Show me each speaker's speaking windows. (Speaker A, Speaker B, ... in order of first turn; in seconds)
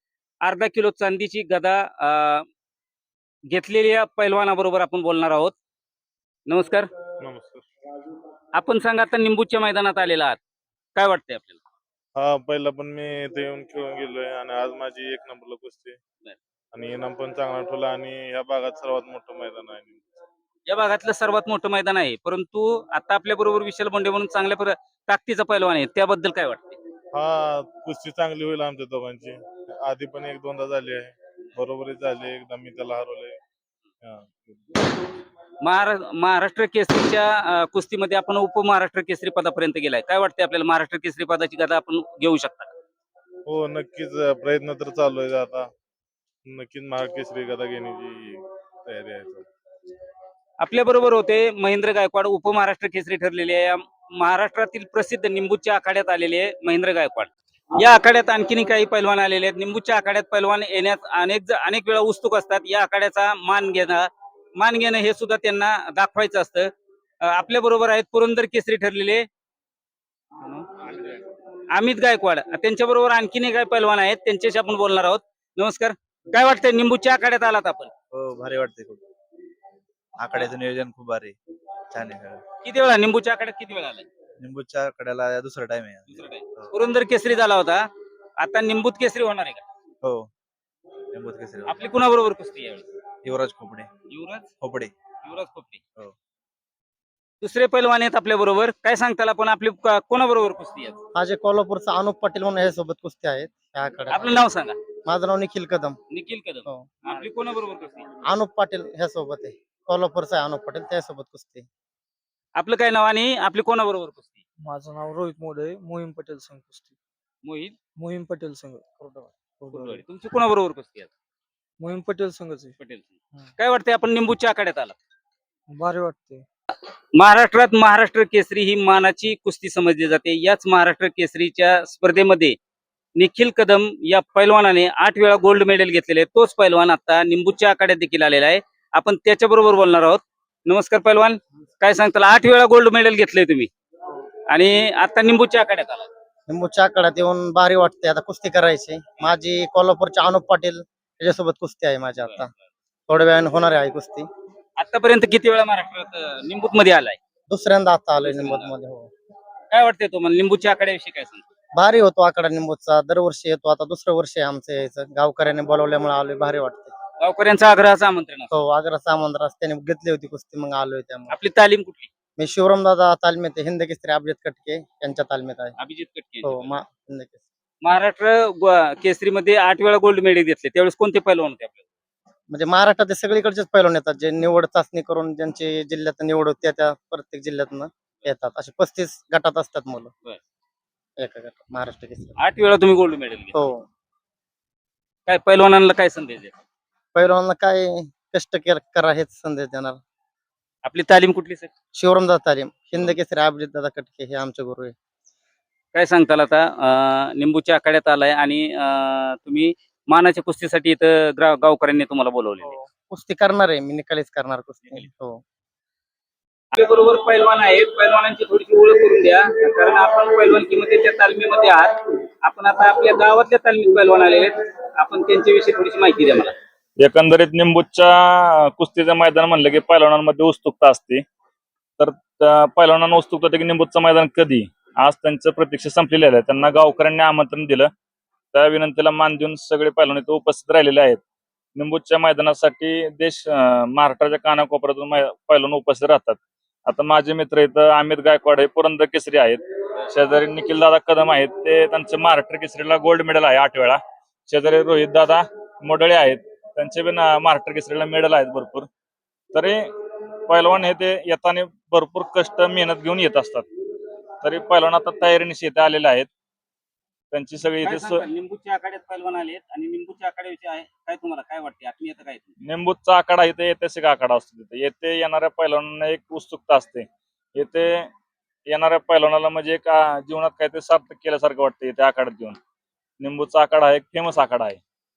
Speaker A: 0.4-2.5, 3.5-5.6, 6.5-6.9, 8.6-10.4, 11.0-11.6, 20.7-26.8, 35.6-42.7, 50.6-66.7, 67.2-69.2, 71.7-77.9, 82.6-84.1, 86.1-87.8, 88.4-89.6, 91.7-92.9, 94.1-94.5, 95.2-95.8, 97.4-101.0, 104.1-104.8, 106.1-108.1, 112.6-114.4, 117.4-117.8, 119.7-121.1, 122.8-125.0, 127.2-132.6, 133.2-143.7, 144.5-146.1, 154.8-157.2, 158.2-158.7, 159.7-161.4, 167.2-168.5, 171.3-172.1, 175.8-176.8, 177.8-181.9, 192.4-193.6, 195.3-196.5, 200.8-201.7, 205.9-212.8, 216.7-221.9, 222.4-226.5, 267.8-272.5
Speaker B: 7.2-7.7, 12.2-16.0, 16.7-20.1, 27.1-33.4, 34.0-34.6, 43.5-45.7, 46.5-49.5
Speaker C: 78.1-79.0, 80.2-81.4, 81.9-82.4, 84.4-86.7, 90.0-90.3, 91.1-91.7, 93.2-93.9, 94.6-94.9
Speaker D: 101.2-104.4, 105.1-106.0, 108.3-111.7, 146.5-152.5, 153.1-154.3, 157.5-159.1, 161.8-166.9, 168.5-171.3, 172.4-175.7, 176.4-177.4, 182.5-190.1, 191.2-192.4, 193.5-193.8, 197.2-200.0, 202.0-204.9, 212.6-215.4
Speaker E: 114.6-117.0, 118.0-120.0, 121.8-122.8, 125.7-126.5
Speaker F: 227.0-231.2, 232.0-237.9, 238.5-241.2, 241.8-258.9, 259.5-259.8, 260.5-263.7, 264.4-266.3, 267.3-268.2, 272.6-278.1, 278.7-282.6, 283.2-284.8